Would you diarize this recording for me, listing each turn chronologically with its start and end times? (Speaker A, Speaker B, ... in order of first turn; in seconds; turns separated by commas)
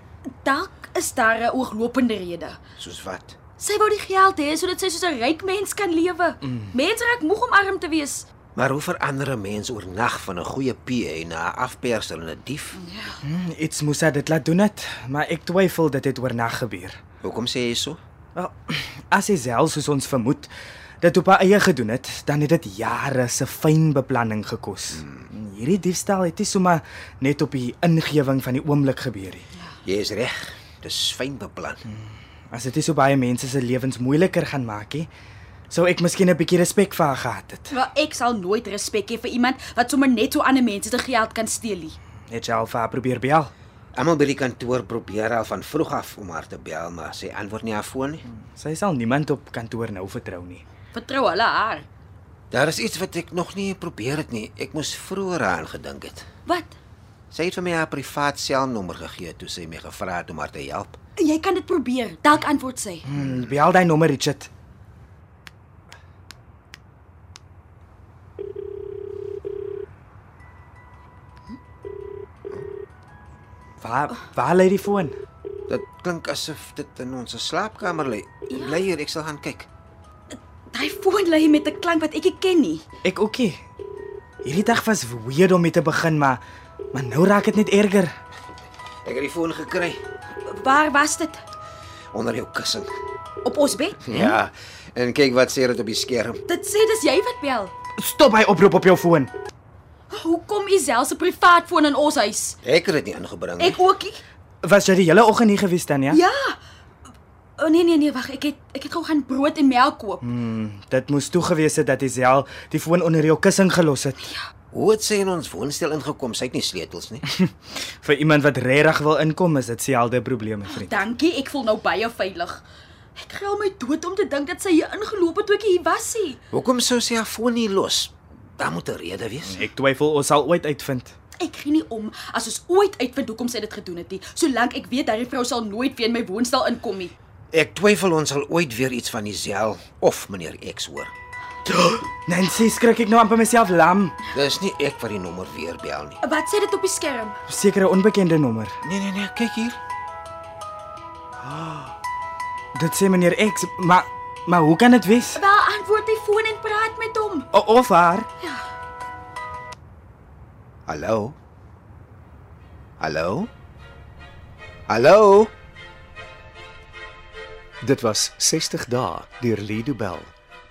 Speaker A: 0.3-2.6, Speaker B: 2.8-3.4, Speaker A: 3.6-8.2, Speaker C: 6.4-6.7, Speaker B: 8.6-12.8, Speaker A: 12.8-13.2, Speaker C: 13.2-17.0, Speaker B: 17.2-18.0, Speaker C: 18.4-20.5, Speaker C: 21.0-29.4, Speaker B: 24.9-25.3, Speaker B: 29.9-31.8, Speaker C: 31.9-35.1, Speaker C: 35.7-37.7, Speaker A: 37.7-42.0, Speaker C: 42.3-43.5, Speaker B: 44.0-48.2, Speaker C: 48.3-50.6, Speaker A: 50.9-51.9, Speaker B: 52.5-56.2, Speaker A: 56.5-56.8, Speaker B: 57.3-61.0, Speaker A: 61.2-63.0, Speaker C: 63.1-64.5, Speaker C: 73.8-75.1, Speaker B: 75.7-79.7, Speaker A: 80.3-82.8, Speaker C: 83.0-83.6, Speaker C: 84.4-86.4, Speaker C: 86.9-88.1, Speaker B: 89.0-90.0, Speaker A: 90.5-91.4, Speaker B: 92.1-92.9, Speaker A: 93.4-94.0, Speaker B: 94.0-96.4, Speaker A: 96.5-97.7, Speaker C: 98.0-99.3, Speaker A: 100.1-102.6, Speaker B: 102.6-103.8, Speaker A: 103.6-104.2, Speaker C: 104.6-106.2, Speaker A: 106.1-106.6, Speaker A: 107.6-110.2, Speaker C: 110.2-114.3, Speaker B: 114.7-117.2, Speaker C: 117.4-121.0, Speaker A: 120.7-122.6, Speaker A: 123.2-126.4, Speaker B: 126.5-129.6, Speaker C: 129.4-131.2, Speaker A: 131.4-137.1, Speaker B: 137.5-141.1, Speaker C: 141.7-144.2, Speaker B: 144.3-146.2, Speaker A: 146.2-147.4, Speaker C: 147.5-148.8, Speaker B: 148.8-149.8, Speaker C: 151.4-151.9, Speaker C: 152.8-155.4, Speaker A: 155.3-157.5, Speaker C: 157.5-158.3, Speaker B: 160.9-161.4, Speaker B: 163.0-163.5, Speaker B: 164.9-165.5, Speaker D: 167.8-170.3